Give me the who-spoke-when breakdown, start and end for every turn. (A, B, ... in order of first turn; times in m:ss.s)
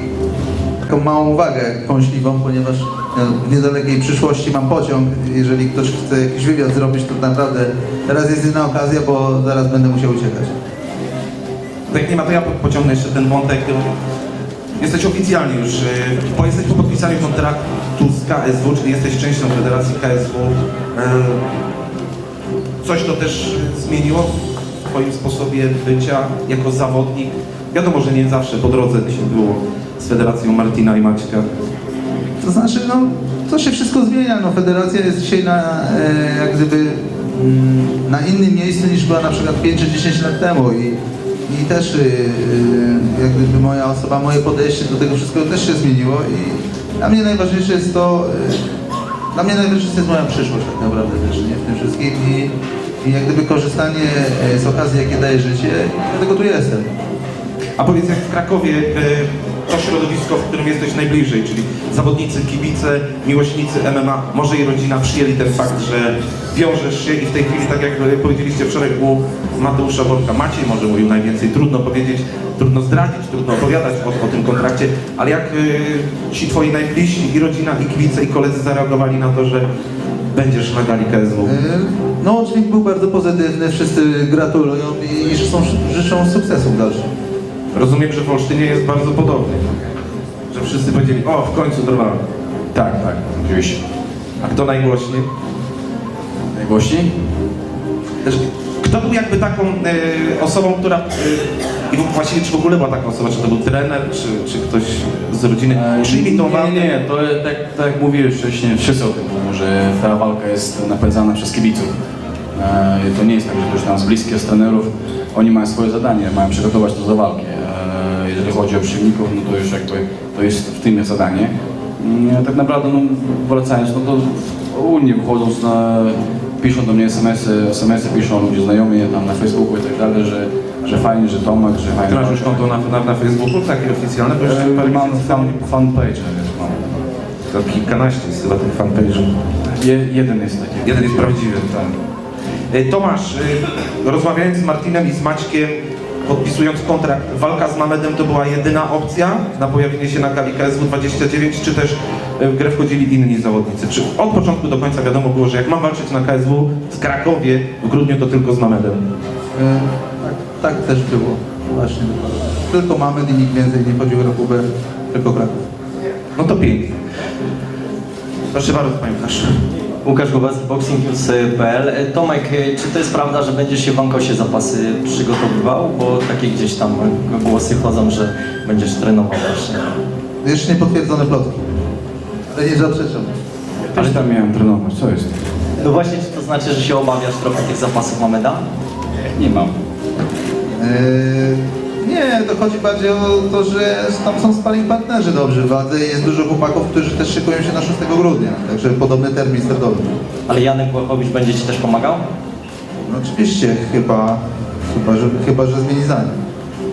0:00.8-0:10.5 A
0:11.9-0:13.9 B
0:14.8-0:21.4 B
0:22.8-0:24.3 B
0:24.9-0:31.4 B
0:32.4-0:41.0 A
0:41.5-0:48.6 A
0:49.3-0:52.5 A
0:53.0-0:56.9 A
0:57.8-1:19.6 B
1:20.3-1:21.5 B
1:21.4-1:27.1 A
1:27.7-1:29.6 B
1:30.5-1:32.2 B
1:32.7-1:33.8 C
1:34.4-1:35.3 B
1:36.5-1:37.1 C
1:38.2-1:47.0 B
1:45.7-1:51.9 C
1:52.5-2:12.7 C
2:12.1-2:15.6 B
2:14.4-2:17.0 C
2:17.5-2:19.3 B
2:19.6-2:21.4 C
2:20.8-2:21.9 B
2:22.7-2:39.0 B
2:39.6-2:45.6 A
2:46.4-2:46.9 B
2:48.5-2:49.6 B
2:50.0-2:59.9 D
3:00.4-3:01.6 A
3:02.5-3:03.3 A
3:03.9-3:05.4 C
3:04.0-3:04.2 D
3:05.8-3:08.6 D
3:09.3-3:09.8 C
3:10.8-3:20.1 A
3:20.5-3:22.2 D
3:23.1-3:26.3 A